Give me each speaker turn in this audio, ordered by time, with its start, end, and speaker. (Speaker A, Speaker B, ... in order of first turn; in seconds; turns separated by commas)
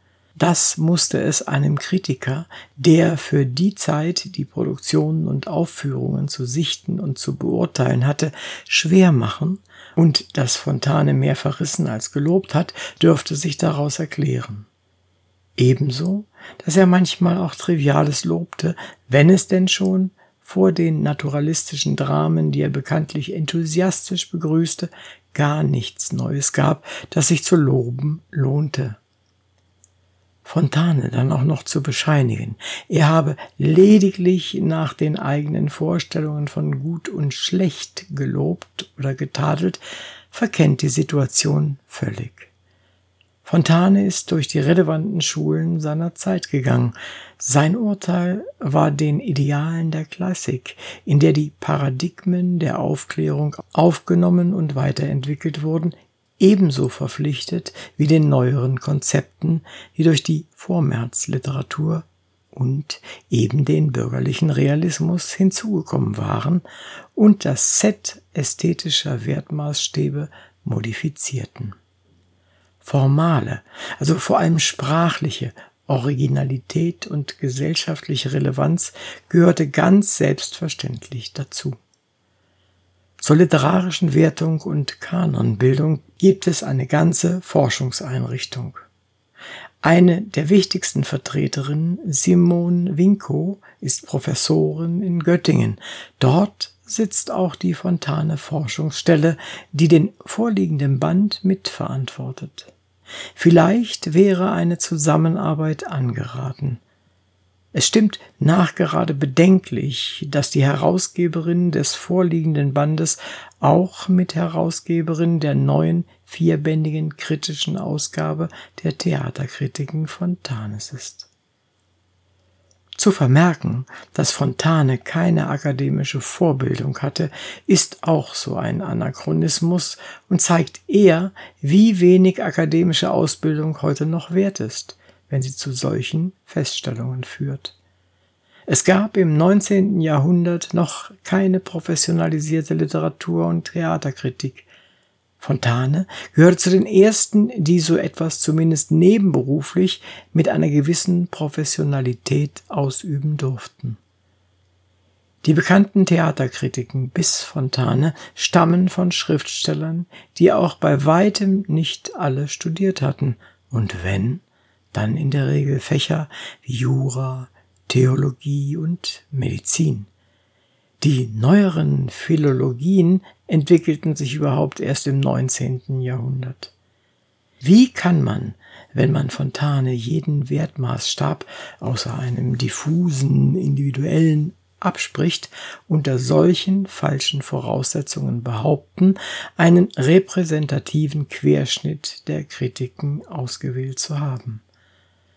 Speaker A: 0.3-14.7, Speaker A: 15.6-29.0, Speaker A: 30.4-42.5, Speaker A: 43.4-66.6, Speaker A: 67.1-71.8, Speaker A: 72.8-81.8, Speaker A: 83.2-88.8, Speaker A: 89.8-102.7, Speaker A: 103.3-106.8, Speaker A: 107.7-121.3, Speaker A: 123.0-137.8, Speaker A: 138.7-144.7, Speaker A: 145.4-154.0, Speaker A: 155.4-170.1, Speaker A: 171.0-176.7, Speaker A: 177.6-194.6